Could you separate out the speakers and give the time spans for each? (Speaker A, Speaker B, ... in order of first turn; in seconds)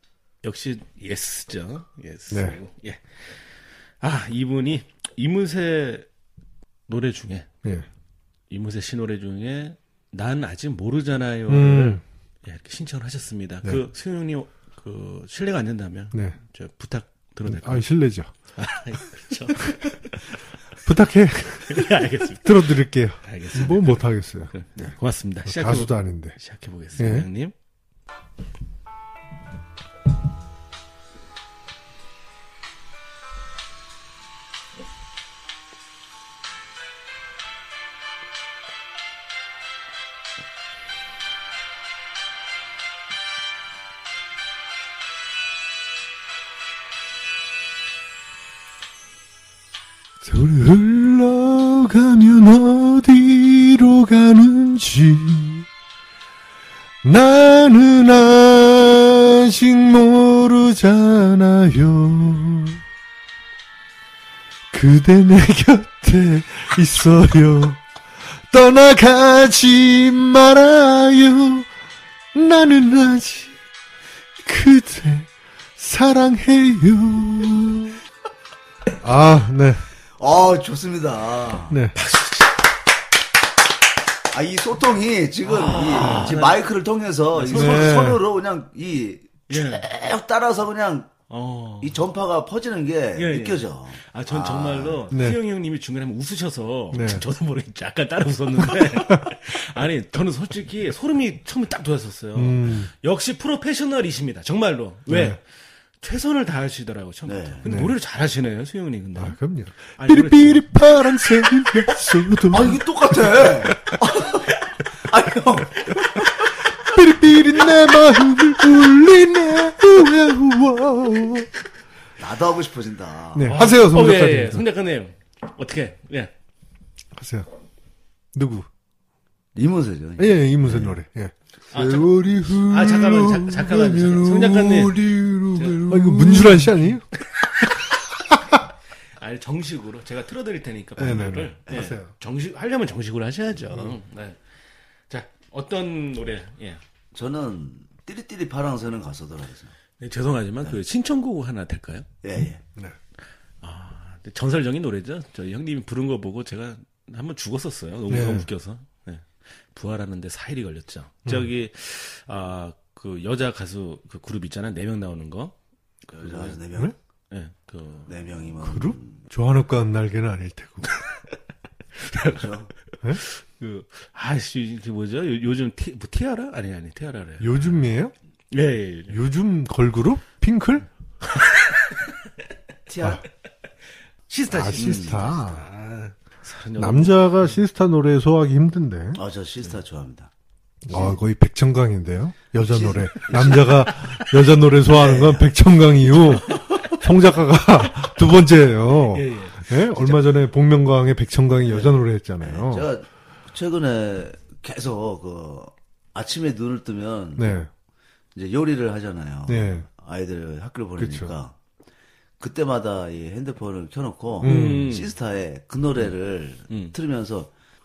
Speaker A: 0.4-3.4, 4.0-6.1, 6.9-7.5, 8.5-17.9, 18.6-20.2, 21.7-27.5, 82.0-82.5, 85.4-86.6, 87.3-88.1, 89.5-89.9, 91.3-92.0, 93.1-105.4, 106.0-110.6, 123.5-126.3, 131.7-135.0, 135.5-136.7, 139.2-144.4, 145.1-146.8, 150.0-152.1, 153.6-165.5, 166.1-166.6, 167.3-168.1, 172.0-172.5, 173.2-177.6, 178.5-179.2, 181.3-181.8, 184.3-187.6, 193.6-194.2, 196.5-196.8, 199.1-199.8, 214.4-215.1, 216.7-216.9
Speaker B: 2.3-2.6, 11.5-12.0, 17.4-18.3, 20.8-24.9, 25.4-26.4, 27.0-27.3, 50.2-55.6, 57.0-62.8, 64.7-67.8, 68.5-71.7, 72.3-73.5, 74.4-78.0, 79.0-79.8, 81.7-82.0, 86.0-86.4, 87.5-88.2, 95.1-95.4, 96.9-97.2, 98.7-99.3, 102.3-102.9, 105.1-105.4, 107.6-108.0, 109.2-114.0, 116.8-121.5, 123.3-124.6, 127.1-127.5, 128.3-128.7, 130.2-131.3, 131.9-134.4, 135.8-137.0, 141.0-142.1, 158.1-158.5, 168.6-170.9, 177.4-178.1, 179.1-180.8, 184.5-185.7, 186.8-189.2, 190.8-202.9, 207.4-207.7, 209.5-209.8, 211.0-211.3, 214.4-214.9
Speaker C: 80.2-81.8, 84.3-91.1, 91.8-95.1, 107.2-107.7, 112.5-116.2, 122.2-123.6, 129.5-131.0, 131.7-136.1, 141.7-141.9, 147.1-149.7, 152.2-152.6, 166.2-166.9, 168.1-169.2, 172.2-172.7, 182.9-183.2, 184.7-185.2, 189.1-190.3, 190.9-191.2, 192.6-193.9, 194.9-195.5, 201.7-207.6, 208.3-211.5, 212.4-217.5